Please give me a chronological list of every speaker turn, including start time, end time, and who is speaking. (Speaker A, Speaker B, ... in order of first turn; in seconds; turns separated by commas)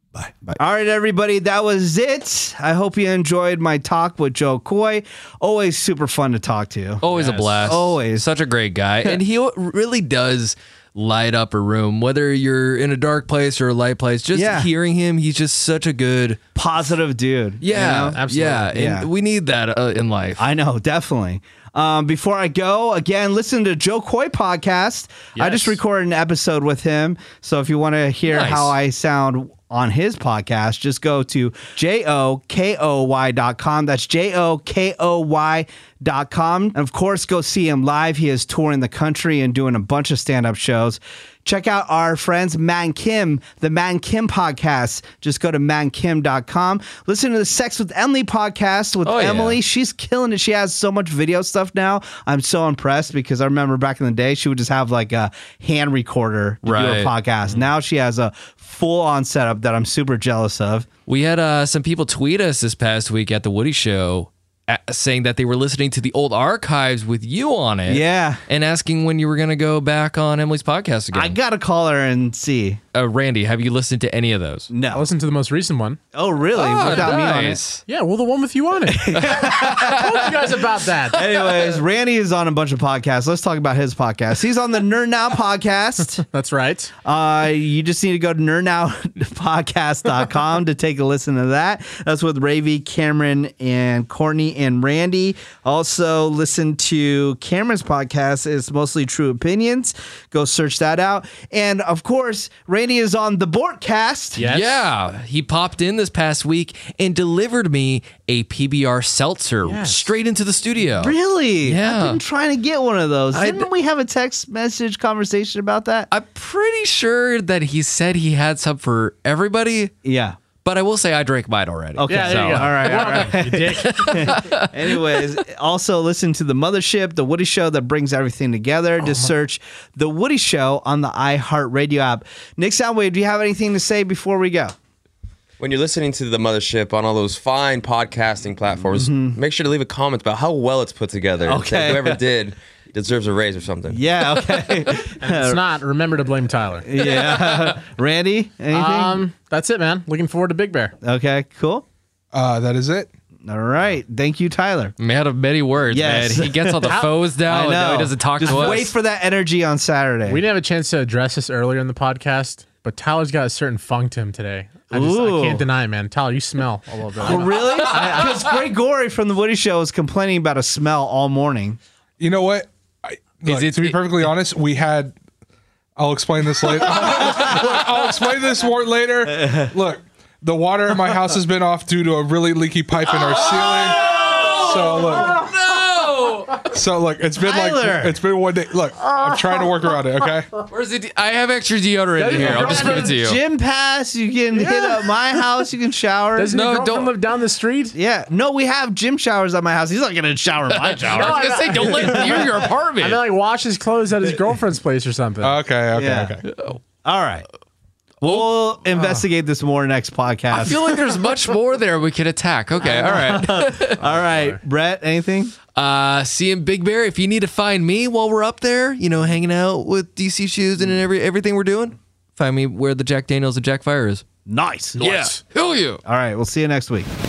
Speaker A: 0.5-7.0, Speaker B: 7.0-16.4, Speaker C: 7.1-7.8, Speaker A: 7.6-8.3, Speaker A: 14.3-14.7, Speaker A: 16.5-19.1, Speaker B: 17.6-20.4, Speaker C: 18.1-18.7, Speaker A: 20.4-60.9, Speaker C: 25.4-25.8, Speaker B: 28.3-28.7, Speaker B: 49.0-49.6, Speaker B: 56.6-57.5, Speaker B: 61.0-71.3, Speaker A: 67.9-68.4, Speaker A: 71.1-72.8, Speaker B: 72.9-74.7, Speaker A: 74.7-75.1, Speaker C: 74.9-76.0, Speaker A: 76.1-77.6, Speaker B: 76.5-77.8, Speaker C: 76.7-77.2, Speaker C: 77.9-81.2, Speaker A: 78.9-80.3, Speaker B: 79.3-80.6, Speaker A: 81.1-86.2, Speaker C: 86.3-86.9, Speaker A: 87.0-104.4, Speaker C: 104.4-104.8, Speaker B: 104.4-112.2, Speaker C: 109.6-110.1, Speaker A: 111.0-116.1, Speaker B: 113.3-113.6, Speaker B: 116.1-119.9, Speaker A: 120.0-120.4, Speaker B: 120.6-125.0, Speaker A: 121.9-134.7, Speaker C: 122.1-124.4, Speaker D: 135.6-144.0, Speaker A: 138.9-139.4, Speaker A: 141.4-142.2, Speaker A: 143.9-145.6, Speaker C: 144.9-147.4, Speaker A: 146.8-149.2, Speaker C: 148.7-150.9, Speaker A: 151.0-151.8, Speaker E: 152.3-153.1, Speaker A: 153.4-154.9, Speaker B: 155.0-158.9, Speaker A: 155.9-160.4, Speaker C: 156.8-157.2, Speaker C: 158.4-158.9, Speaker C: 160.3-168.3, Speaker A: 164.9-165.7, Speaker A: 167.2-171.8, Speaker E: 172.2-175.2, Speaker B: 173.4-174.0, Speaker E: 176.0-185.4, Speaker A: 179.3-179.7, Speaker B: 183.1-186.7, Speaker E: 186.7-190.5, Speaker A: 187.4-188.2, Speaker B: 190.7-193.4, Speaker C: 192.2-193.2, Speaker A: 192.5-196.5, Speaker C: 194.6-194.9, Speaker C: 196.3-197.9, Speaker B: 196.5-197.1, Speaker A: 197.9-202.7, Speaker B: 200.7-203.2, Speaker C: 201.1-205.6, Speaker E: 205.4-206.5, Speaker A: 205.9-206.4, Speaker B: 206.5-206.8, Speaker A: 207.0-207.4, Speaker A: 208.2-210.9, Speaker B: 210.5-214.0, Speaker C: 212.8-213.3, Speaker A: 212.8-215.5, Speaker C: 214.0-214.6, Speaker B: 215.7-224.2, Speaker A: 224.5-225.0, Speaker C: 225.0-225.4, Speaker B: 225.0-226.0, Speaker A: 226.0-227.1